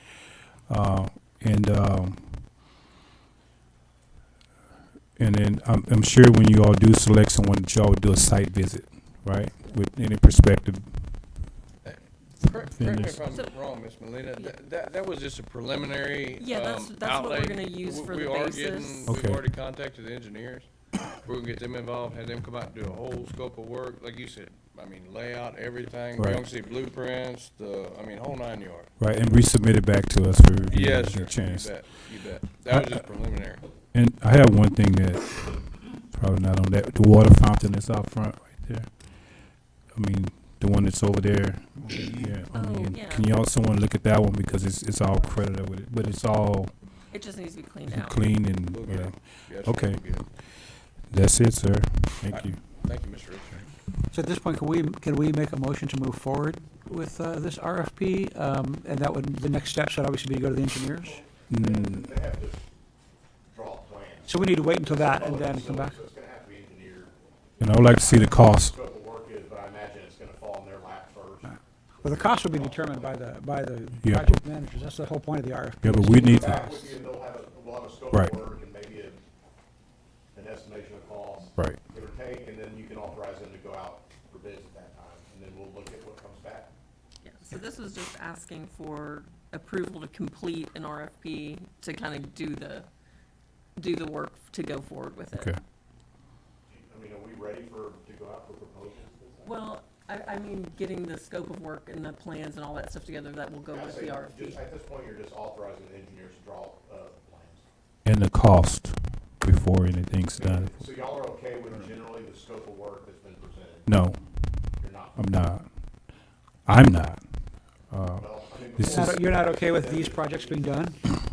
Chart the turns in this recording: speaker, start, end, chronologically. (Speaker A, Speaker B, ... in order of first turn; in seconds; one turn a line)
Speaker A: 0.7-2.5
Speaker A: 5.2-11.1
Speaker B: 11.8-28.9
Speaker A: 12.8-13.2
Speaker C: 13.2-13.6
Speaker C: 16.4-19.1
Speaker A: 19.1-19.4
Speaker A: 29.0-31.7
Speaker B: 30.7-33.6
Speaker A: 33.9-38.9
Speaker A: 39.9-46.7
Speaker C: 42.5-43.3
Speaker C: 47.1-48.2
Speaker A: 47.9-50.0
Speaker B: 48.7-50.3
Speaker A: 51.1-52.6
Speaker B: 52.3-53.7
Speaker D: 54.1-61.2
Speaker E: 60.9-62.6
Speaker A: 61.5-62.0
Speaker E: 63.5-67.1
Speaker D: 64.2-66.0
Speaker A: 67.6-68.8
Speaker E: 68.0-73.2
Speaker D: 71.4-77.1
Speaker A: 74.0-74.4
Speaker A: 75.8-76.6
Speaker E: 76.1-79.2
Speaker A: 78.1-78.4
Speaker E: 80.3-86.7
Speaker C: 87.2-92.9
Speaker C: 93.8-95.5
Speaker E: 96.7-99.5
Speaker C: 99.4-104.6
Speaker E: 103.7-107.6
Speaker A: 108.0-110.7
Speaker E: 110.3-113.9
Speaker A: 113.9-114.2
Speaker E: 114.8-115.2
Speaker A: 115.2-115.7
Speaker A: 116.7-117.2
Speaker A: 117.9-119.2
Speaker E: 118.2-120.9
Speaker D: 118.8-121.0